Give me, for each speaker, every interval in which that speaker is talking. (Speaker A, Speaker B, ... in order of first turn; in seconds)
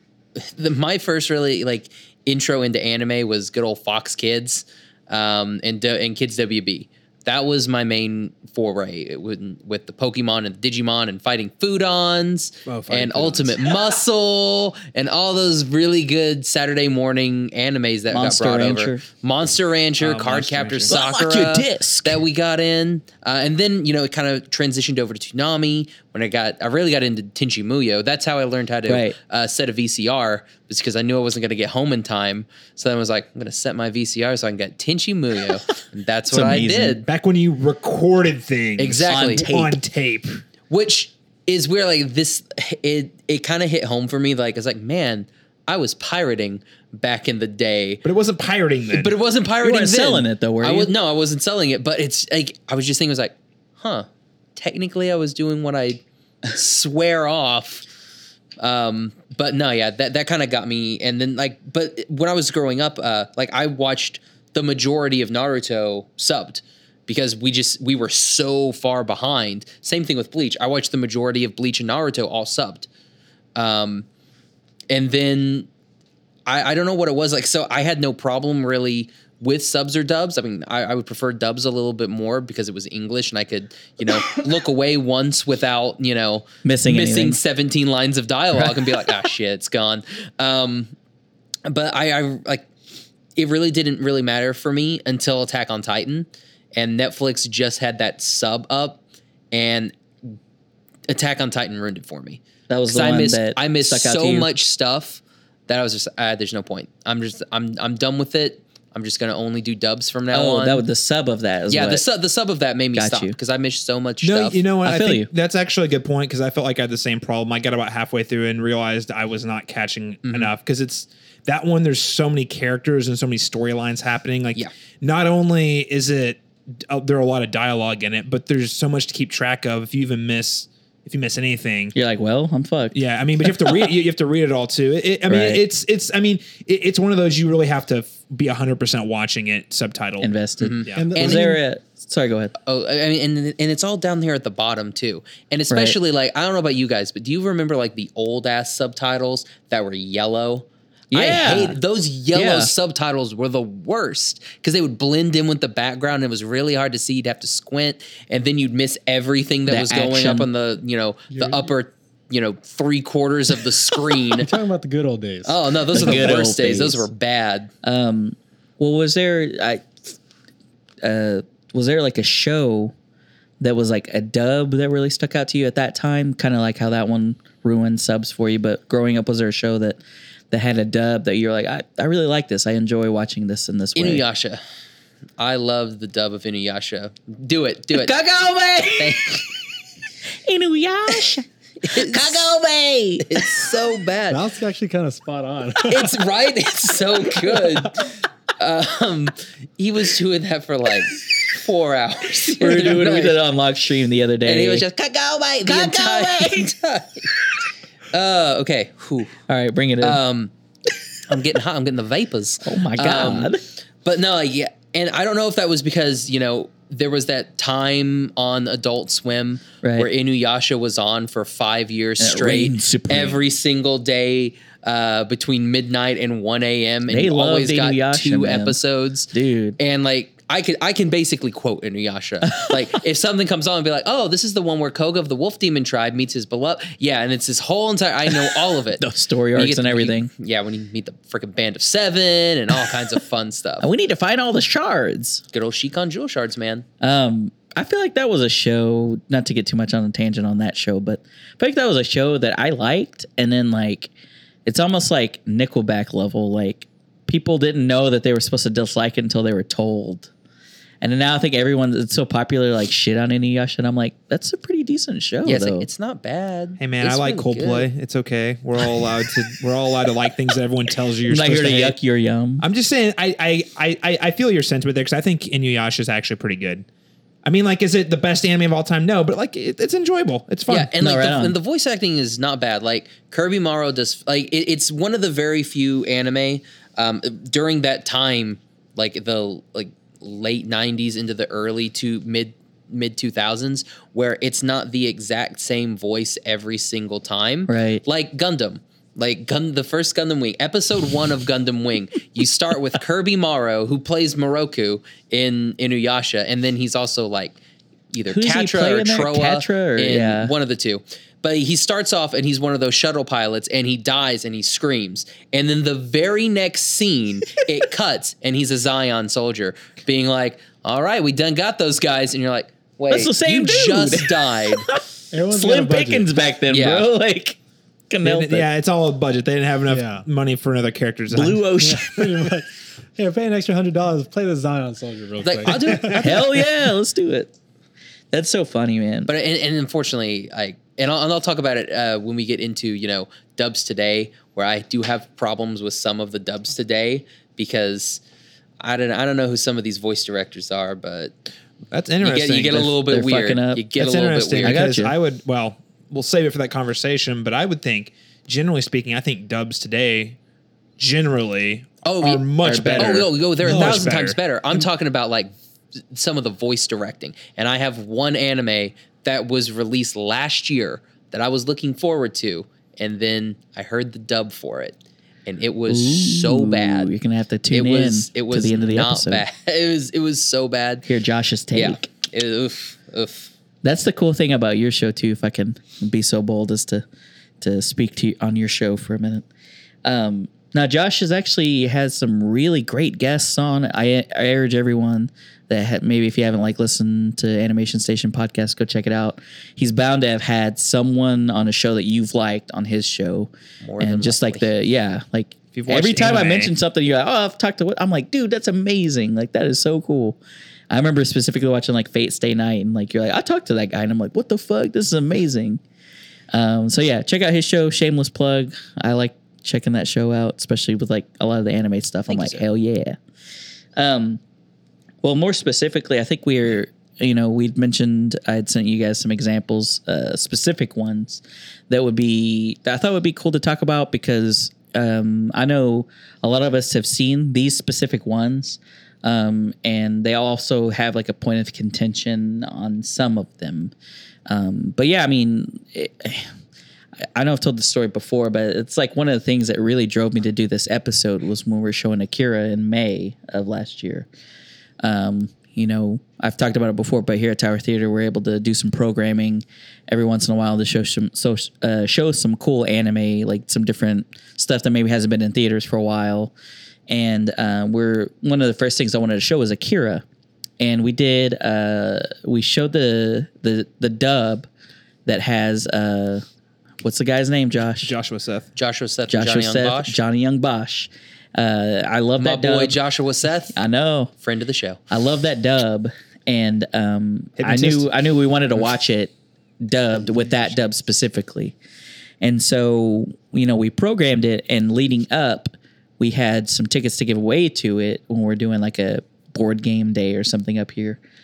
Speaker A: 0.4-37.0, 38.8-39.5, 40.7-48.0, 48.9-57.8, 58.6-72.9, 73.5-74.0, 74.9-75.7, 76.5-90.9, 91.6-92.7, 93.4-99.0, 99.5-100.4, 101.1-110.8, 111.7-114.6, 120.2-120.5, 140.6-141.4, 142.6-164.5, 165.4-167.7, 183.9-184.6, 185.4-188.1, 189.0-189.5, 191.1-192.5, 193.2-194.4, 195.8-203.4, 204.4-207.3, 208.1-209.4, 210.0-210.5, 211.3-213.5, 214.0-243.9, 245.5-246.8, 265.4-267.9, 280.7-307.6, 308.1-324.9, 326.7-327.1, 335.4-336.4, 339.3-348.2, 348.8-351.3, 352.2-354.8, 362.1-365.5, 366.1-377.1, 377.7-381.1, 381.7-383.5, 403.8-404.7, 422.3-422.6, 478.8-480.2, 482.4-483.8, 484.4-485.0
Speaker B: 12.7-13.7, 20.0-20.9, 37.0-40.4, 48.0-49.1, 114.2-131.9, 132.9-140.3, 266.8-271.9, 272.6-276.9, 277.4-280.9, 328.2-331.6, 336.0-336.4, 351.9-352.9, 354.0-360.4, 361.0-364.4, 405.7-406.7, 478.0-478.7, 487.6-488.1
Speaker C: 18.1-19.0, 20.9-22.2, 28.9-29.1, 36.3-37.0, 39.1-39.8, 49.6-50.9, 86.6-87.4, 88.5-89.1, 102.7-104.5, 110.3-112.0, 112.9-113.4, 114.8-115.3, 131.9-133.8, 135.3-135.6, 140.2-142.5, 145.7-146.0, 151.1-151.8, 152.3-152.7, 159.7-160.5, 165.9-167.1, 167.8-170.0, 171.0-172.9, 173.6-180.0, 180.5-184.2, 187.9-189.5, 190.3-193.8, 202.5-204.8, 205.6-206.7, 209.5-210.2, 212.6-213.6, 219.8-220.1, 222.2-223.4, 227.1-228.8, 229.3-229.8, 238.3-240.3, 243.8-245.4, 247.0-254.1, 254.7-260.3, 261.0-265.9, 271.3-272.6, 281.0-281.6, 297.7-298.0, 308.2-310.5, 323.1-327.6, 328.1-328.6, 331.3-332.5, 336.2-337.5, 338.3-339.3, 352.8-353.9, 354.6-355.1, 362.6-363.3, 375.9-379.4, 381.1-382.1, 383.8-387.1, 387.6-389.4, 390.1-410.4, 410.9-415.8, 416.5-423.2, 424.0-424.4, 425.2-443.9, 444.5-446.5, 447.4-454.3, 455.0-466.5, 467.1-470.2, 470.8-474.7, 475.2-476.4, 477.0-478.1, 479.3-483.0, 483.7-484.3, 485.1-491.8, 492.4-501.2
Speaker D: 141.0-141.6, 161.3-161.7, 164.3-166.4, 194.3-196.1, 325.3-326.3, 329.9-330.2, 331.7-336.2, 363.7-364.1